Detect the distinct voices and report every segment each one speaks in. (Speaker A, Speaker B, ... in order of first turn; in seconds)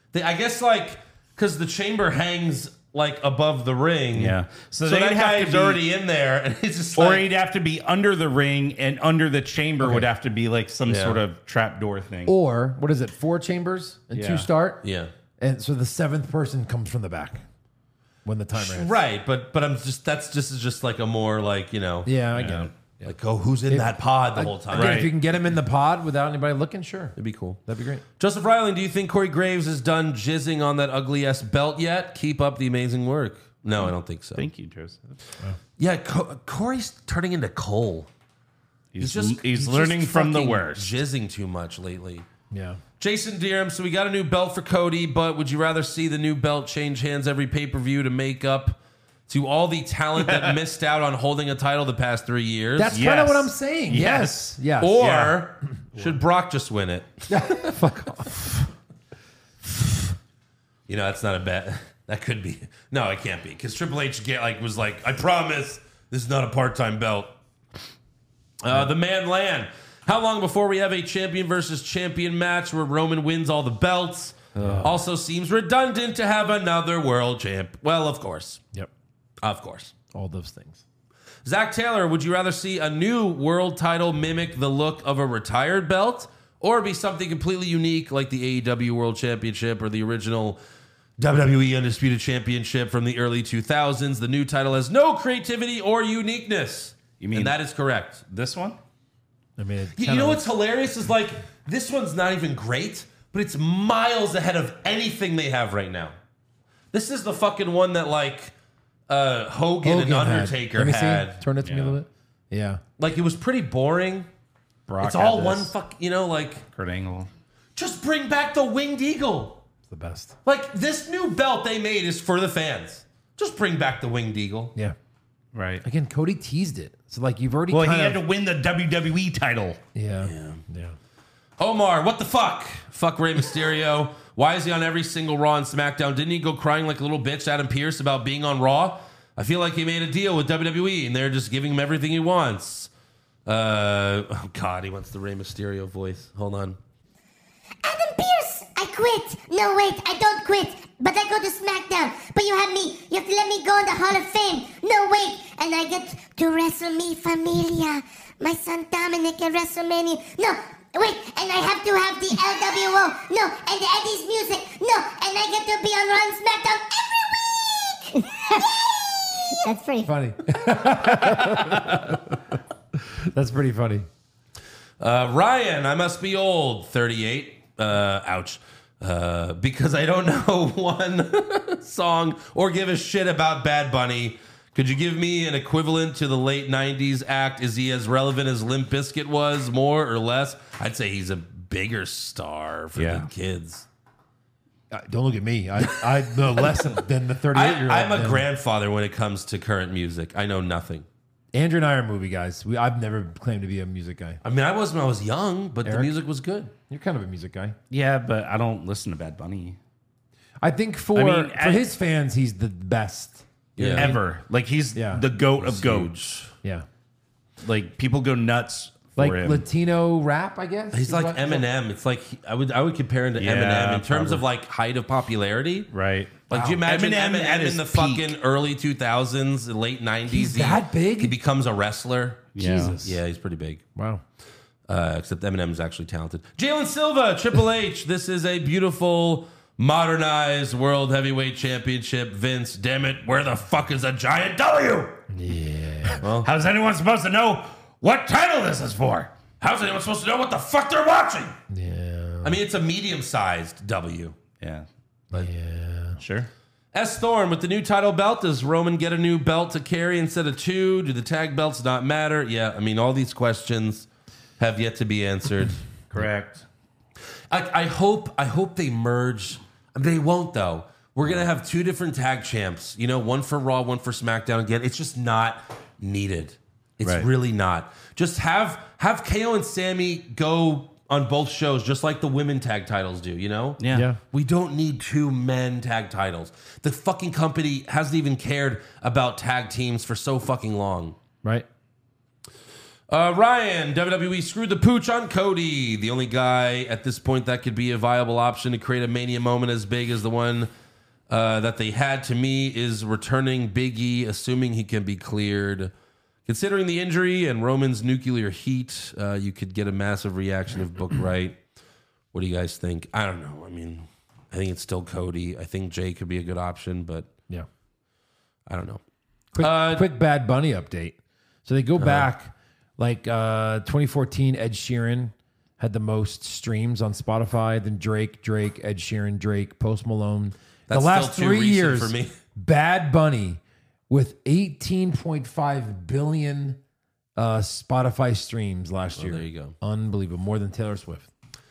Speaker A: 0.1-7.3, 10.9-11.2, 14.8-15.1, 18.5-22.1, 23.0-25.1, 27.2-27.6, 28.2-34.5, 35.8-38.1, 39.0-42.3, 43.0-53.0, 54.8-57.8, 60.9-67.3, 68.6-78.6, 79.4-79.9, 81.5-90.6, 91.2-98.2, 100.0-106.2, 106.9-108.5, 109.1-111.4, 113.0-114.3, 115.0-116.6, 117.8-119.6, 120.5-124.7, 130.2-130.6, 131.6-142.9, 143.5-146.8, 171.0-172.0, 175.0-193.9, 197.5-201.1, 204.4-206.7, 213.8-214.2, 215.6-216.5, 220.9-225.9, 226.5-233.8, 234.9-245.2, 246.2-246.5, 249.6-251.6, 252.4-254.4, 256.9-264.1, 264.6-265.8, 267.5-291.2, 293.1-300.7, 301.3-305.9, 306.5-311.6, 312.3-317.3, 318.7-319.0, 319.6-320.1, 322.0-322.3, 330.9-332.3, 339.2-339.8
Speaker B: 4.1-5.8, 7.0-12.3, 14.1-14.5, 22.4-22.7, 24.7-25.1, 34.4-35.2, 38.9-40.9, 50.2-50.5, 52.9-55.3, 97.2-97.5, 98.3-98.8, 111.6-112.0, 114.9-115.7, 116.7-117.3, 125.5-125.8, 127.7-129.8, 193.0-193.3, 207.9-209.8, 211.1-211.9, 213.9-216.2, 217.6-219.7, 223.4-224.4, 225.9-228.3, 232.6-233.0, 246.2-249.3, 254.6-254.9, 256.2-256.5, 266.1-266.6, 277.0-277.3, 283.8-284.1
Speaker C: 9.8-10.1, 12.3-14.8, 15.4-17.4, 18.2-18.9, 22.1-23.0, 23.7-28.0, 42.5-42.8, 52.8-55.3, 57.3-58.5, 74.6-75.0, 80.1-80.8, 99.6-100.5, 109.8-112.8, 119.9-120.4, 125.8-128.2, 129.9-131.0, 170.0-172.3, 173.1-174.1, 194.9-198.4, 201.5-204.4, 205.8-206.1, 206.9-207.8, 210.6-214.2, 214.9-215.2, 219.2-221.7, 226.5-226.8, 230.3-231.3, 232.6-233.2, 234.0-234.2, 245.3-246.2, 251.7-252.6, 255.3-256.2, 283.9-284.2, 319.6-336.8, 337.4-341.3
Speaker D: 147.8-170.1